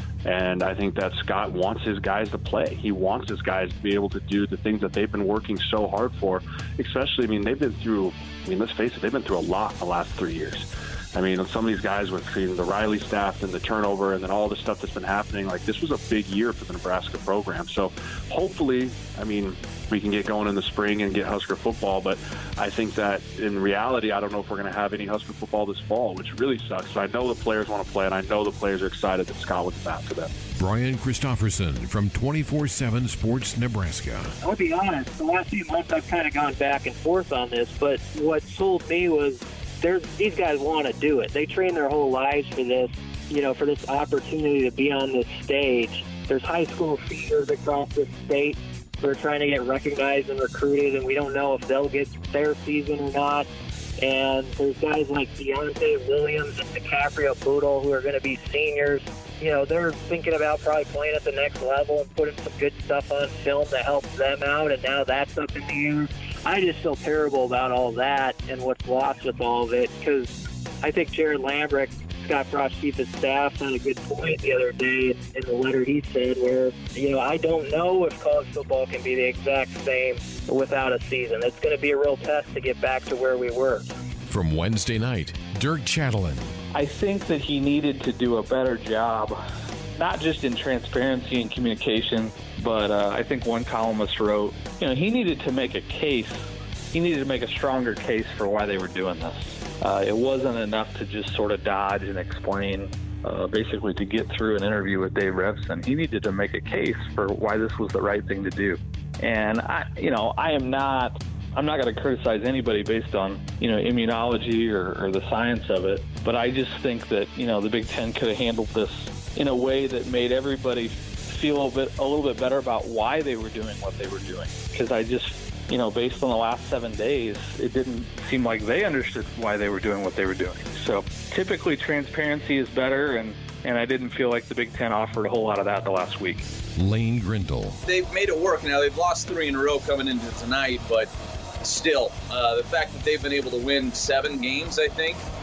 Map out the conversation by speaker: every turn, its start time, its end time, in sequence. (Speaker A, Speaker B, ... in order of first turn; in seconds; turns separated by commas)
Speaker A: 0.2-30.3, Speaker B: 30.5-34.4, Speaker C: 34.4-53.5, Speaker C: 54.0-83.9, Speaker B: 84.3-86.5, Speaker D: 86.7-89.4, Speaker D: 90.0-136.5, Speaker B: 136.7-137.8, Speaker E: 137.9-141.1, Speaker E: 141.6-145.2